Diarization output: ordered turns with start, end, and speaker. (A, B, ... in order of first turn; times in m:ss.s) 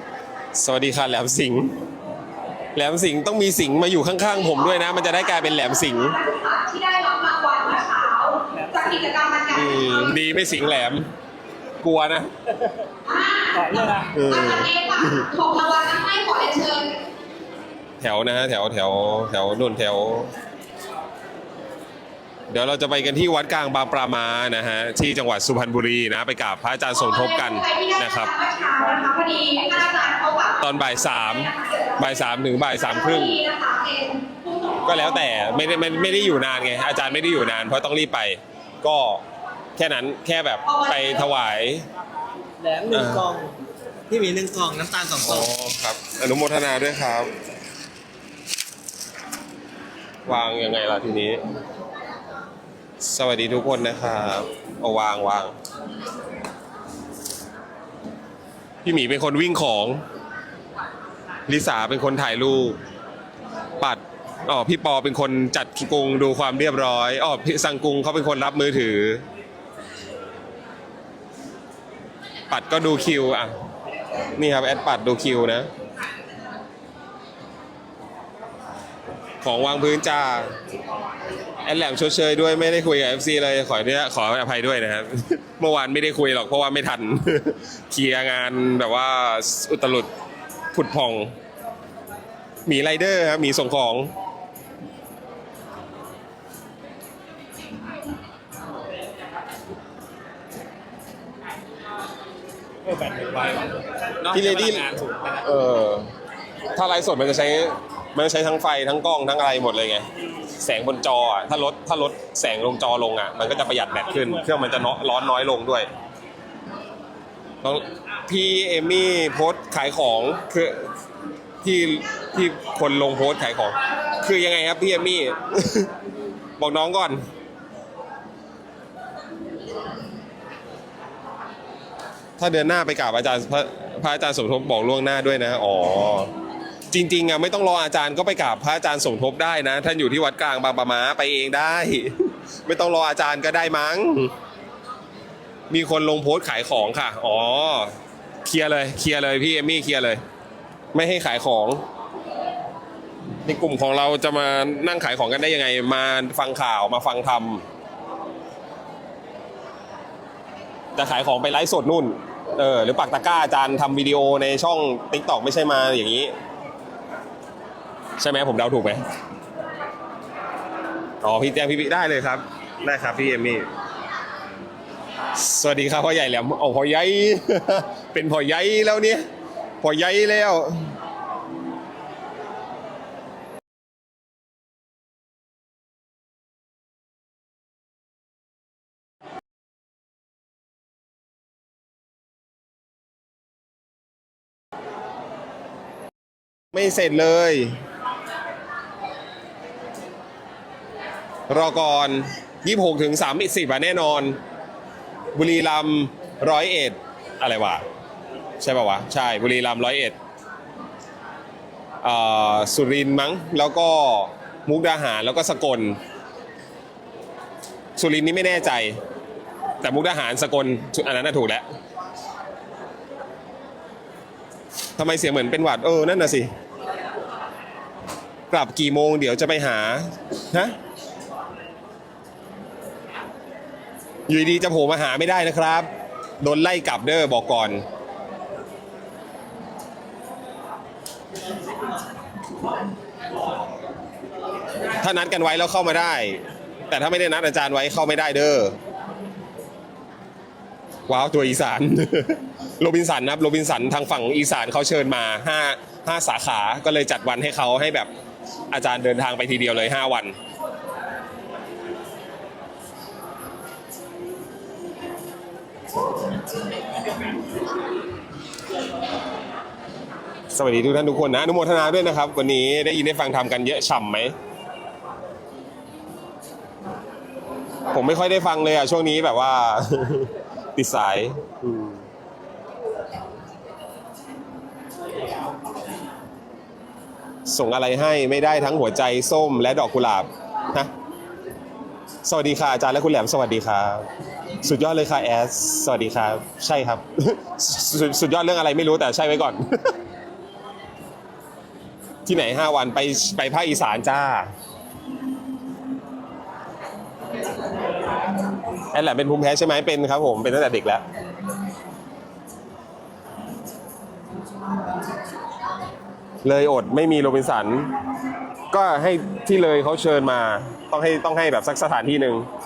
0:00.6-0:01.8 A
0:02.8-0:06.2 A
0:06.0-0:10.2 B
0:09.5-0:11.1 A
0:11.8-0:12.3 A
0:13.0-0:17.0 B
0:13.7-0:14.1 C
0:14.1-0:15.2 A
0:18.0-0:20.3 A
0:22.5-0:28.3 A
0:27.0-0:30.6 B
0:30.6-0:33.4 A
0:31.5-0:32.0 B
0:32.8-0:34.9 B
0:34.8-0:39.2 A
0:39.8-0:41.8 A
0:40.7-0:41.2 B
0:42.6-0:43.6 C
0:42.9-0:43.3 A
0:44.1-0:45.5 C
0:45.2-0:47.3 A
0:50.3-0:51.4 A
0:53.0-0:55.5 A
0:58.8-1:00.0 A
1:01.5-1:02.8 A
1:03.8-1:09.2 A
1:12.5-1:13.5 A
1:14.4-1:15.7 A
1:19.4-1:20.5 A
1:21.6-1:30.1 A
1:30.7-1:31.3 A
1:32.7-1:34.1 A
1:42.9-1:45.5 C
1:44.3-1:46.1 A
1:46.7-1:50.0 A
1:50.6-1:55.9 A
1:57.6-2:00.9 A
2:01.6-2:05.9 A
2:06.6-2:07.2 A
2:12.4-2:16.3 A
2:16.9-2:22.1 A
2:22.6-2:24.3 A
2:25.7-2:27.9 A
2:28.4-2:30.2 A
2:30.9-2:31.8 A
2:33.4-2:37.6 A
2:41.0-2:46.3 A
2:48.2-2:49.0 A
2:51.2-2:53.6 A
2:55.4-2:59.2 A
2:59.8-3:00.8 A
3:16.7-3:17.8 A
3:21.5-3:24.4 A
3:25.4-3:27.8 A
3:28.6-3:30.2 A
3:32.0-3:36.0 A
3:38.0-3:39.0 A
3:39.8-3:41.6 A
3:45.0-3:46.5 A
3:48.5-3:50.8 A
3:54.3-3:55.9 A
3:56.4-3:57.8 A
4:05.0-4:08.8 A
4:11.1-4:18.1 A
4:18.7-4:20.4 A
4:30.5-4:34.3 A
4:37.9-4:41.9 A
4:47.5-4:50.9 A
4:52.2-4:54.1 A
4:54.6-4:59.9 A
5:02.2-5:04.5 A
5:08.9-5:11.0 A
5:16.4-5:17.9 A
5:18.7-5:22.5 A